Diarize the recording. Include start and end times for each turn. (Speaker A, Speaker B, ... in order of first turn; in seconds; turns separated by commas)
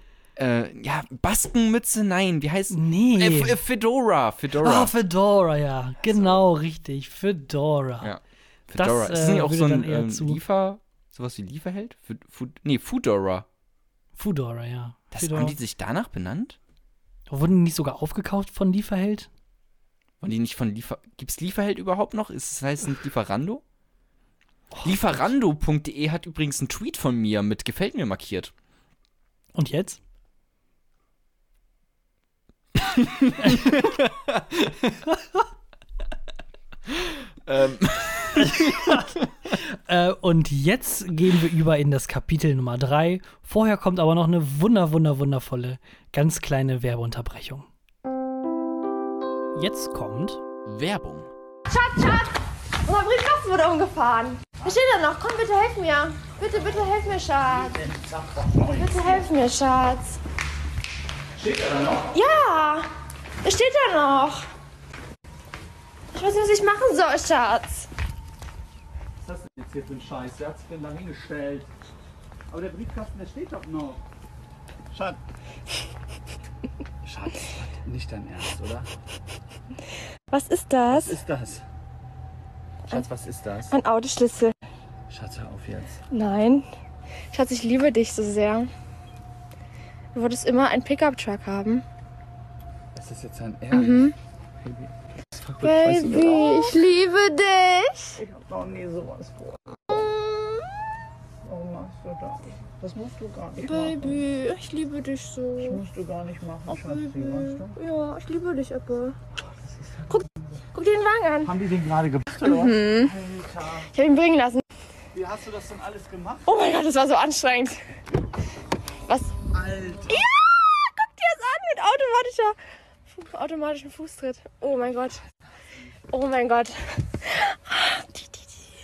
Speaker A: 0.4-4.9, Speaker B: 2.7-3.6, Speaker B: 4.6-8.1, Speaker A: 6.0-6.4, Speaker A: 8.0-13.5, Speaker B: 8.8-10.4, Speaker B: 14.2-15.6, Speaker A: 15.1-16.6, Speaker B: 17.3-19.3, Speaker A: 20.2-23.6, Speaker B: 24.7-25.0, Speaker A: 24.8-28.5, Speaker B: 29.6-30.0, Speaker A: 32.9-34.4, Speaker B: 33.4-33.7, Speaker B: 34.8-35.2, Speaker A: 37.0-39.3, Speaker B: 38.4-47.7, Speaker B: 49.5-50.4, Speaker A: 50.6-51.3, Speaker C: 51.7-57.9, Speaker D: 57.9-59.2, Speaker C: 58.6-60.2, Speaker D: 61.4-62.1, Speaker C: 62.1-62.9, Speaker C: 63.4-64.5, Speaker C: 66.1-67.9, Speaker D: 69.2-71.7, Speaker D: 72.5-74.0, Speaker D: 74.9-75.2, Speaker D: 77.1-78.9, Speaker C: 80.3-81.2, Speaker D: 80.9-81.6, Speaker D: 82.9-83.7, Speaker C: 83.7-84.5, Speaker D: 85.1-86.0, Speaker C: 86.1-86.7, Speaker C: 87.3-88.7, Speaker C: 90.1-91.8, Speaker D: 93.0-94.1, Speaker C: 93.7-94.1, Speaker D: 94.6-96.8, Speaker C: 95.6-98.2, Speaker D: 98.2-99.7, Speaker C: 100.0-100.5, Speaker D: 101.5-104.2, Speaker C: 103.6-105.8, Speaker D: 105.6-107.8, Speaker C: 106.7-109.2, Speaker C: 110.1-111.5, Speaker D: 111.5-113.9, Speaker C: 112.4-113.1, Speaker C: 113.9-114.6, Speaker D: 115.1-116.5, Speaker C: 116.5-117.8, Speaker C: 119.1-119.4, Speaker D: 119.6-120.2, Speaker C: 120.1-122.6, Speaker C: 123.1-125.2, Speaker C: 126.1-128.7